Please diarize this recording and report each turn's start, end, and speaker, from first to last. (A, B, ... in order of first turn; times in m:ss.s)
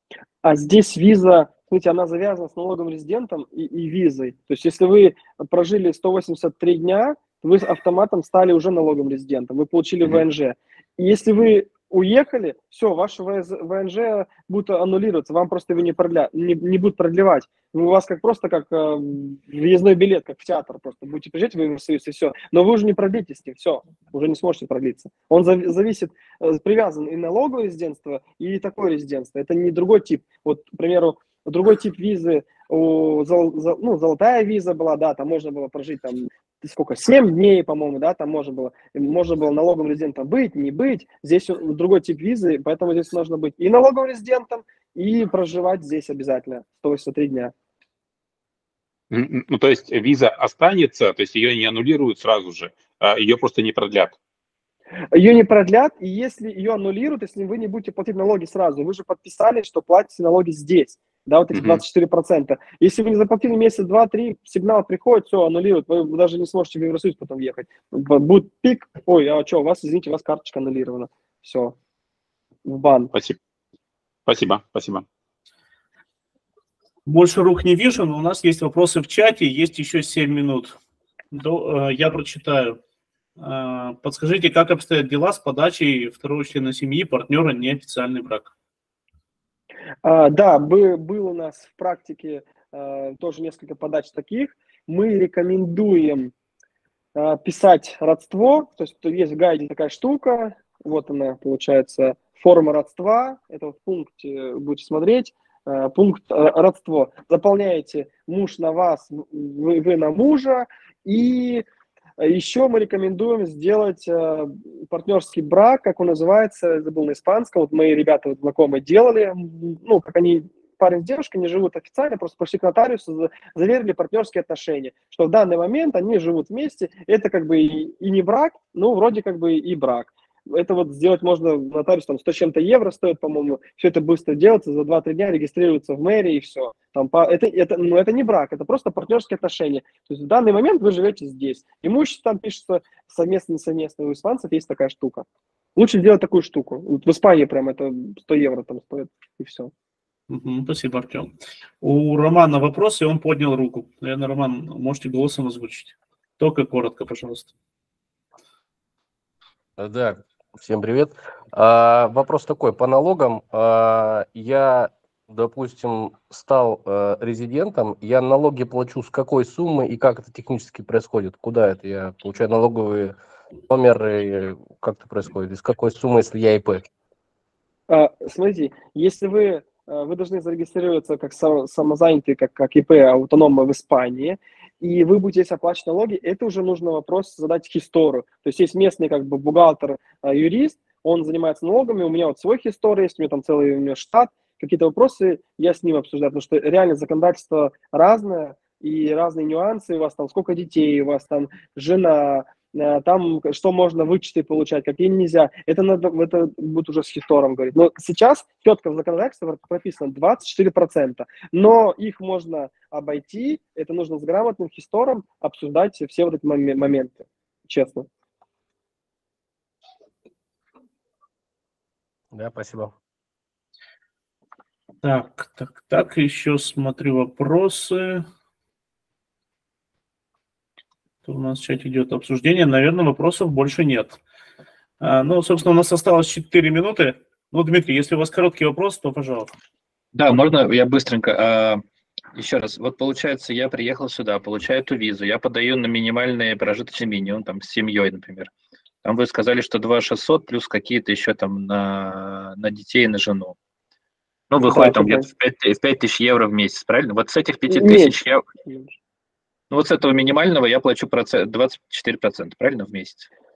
0:00.4-0:47.5 A
0:49.1-0:54.2 B
0:55.1-1:11.8 A
1:01.5-1:01.8 B
1:12.7-1:13.1 A
1:14.3-1:15.0 B
1:17.1-1:20.8 C
1:21.3-1:22.8 C
1:23.4-1:28.5 C
1:30.0-1:36.3 A
1:37.2-1:51.6 A
1:52.2-2:29.7 A
2:30.3-2:37.5 C
2:39.8-2:53.2 D
2:53.7-2:56.8 D
2:57.9-3:38.1 A
3:42.3-3:42.9 D
3:45.0-3:48.3 C
3:51.2-3:54.2 C
3:55.0-3:59.5 C
4:00.1-4:01.8 E
4:02.4-4:08.5 E
4:09.0-4:13.6 E
4:14.5-4:18.4 E
4:14.6-4:15.3 A
4:17.7-4:18.2 A
4:18.7-4:18.9 A
4:19.7-4:23.3 E